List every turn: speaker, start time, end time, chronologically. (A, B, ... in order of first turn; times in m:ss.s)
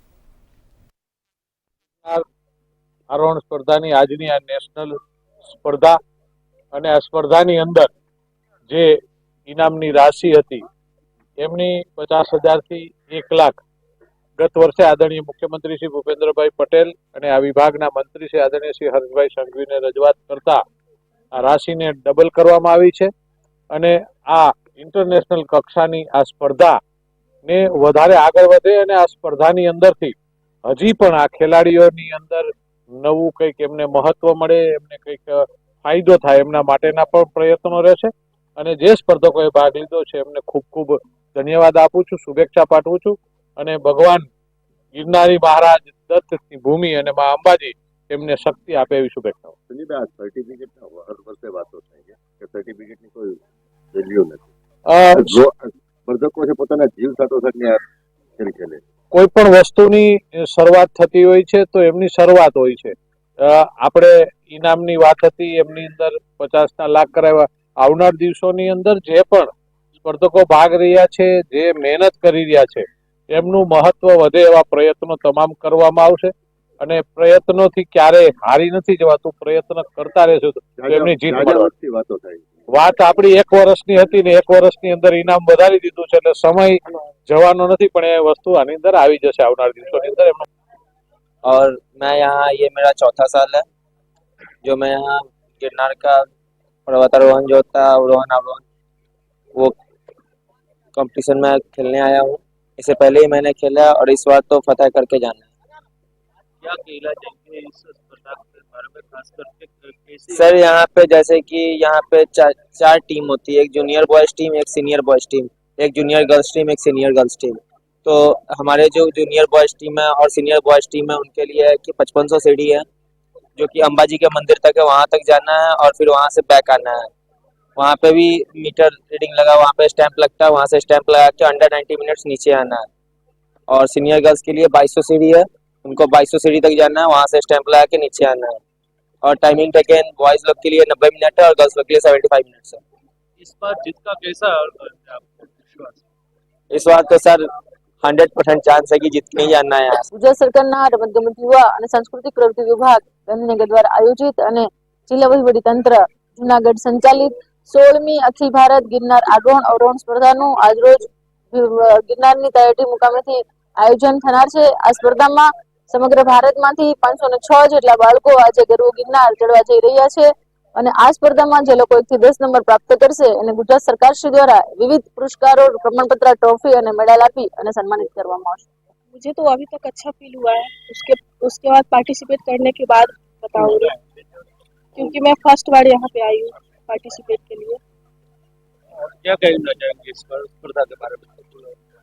0:03.1-0:06.0 A
0:06.8-0:07.9 A
0:09.5-0:10.6 A
0:11.4-0:13.6 A
0:14.4-0:20.6 A
0:21.4-0:23.1 A
0:23.7-0:26.8 A
0:27.5-0:30.2 A
0:30.7-0:32.5 A
0:33.0-0:44.3 A
0:45.0-0:49.6 A
0:49.7-0:53.4 B
0:53.9-0:54.5 B
0:54.9-0:55.4 A
0:55.2-0:57.8 B
0:58.4-0:58.8 B
0:59.1-1:09.5 A
1:10.0-1:21.7 A
1:20.8-1:22.6 B
1:22.7-1:30.5 A
1:31.5-1:33.6 C
1:34.6-1:36.2 C
1:36.9-1:38.6 C
1:41.0-1:45.5 C
1:46.6-1:50.8 D
1:50.3-2:02.8 C
2:03.6-2:07.0 C
2:07.8-2:12.8 C
2:13.7-2:18.6 C
2:19.2-2:22.8 C
2:23.4-2:26.0 D
2:26.7-2:27.4 C
2:28.0-2:30.0 C
2:30.1-2:41.0 E
2:41.5-2:58.7 E
2:59.1-3:03.9 F
3:03.6-3:03.8 D
3:05.0-3:07.8 F
3:09.2-3:11.8 D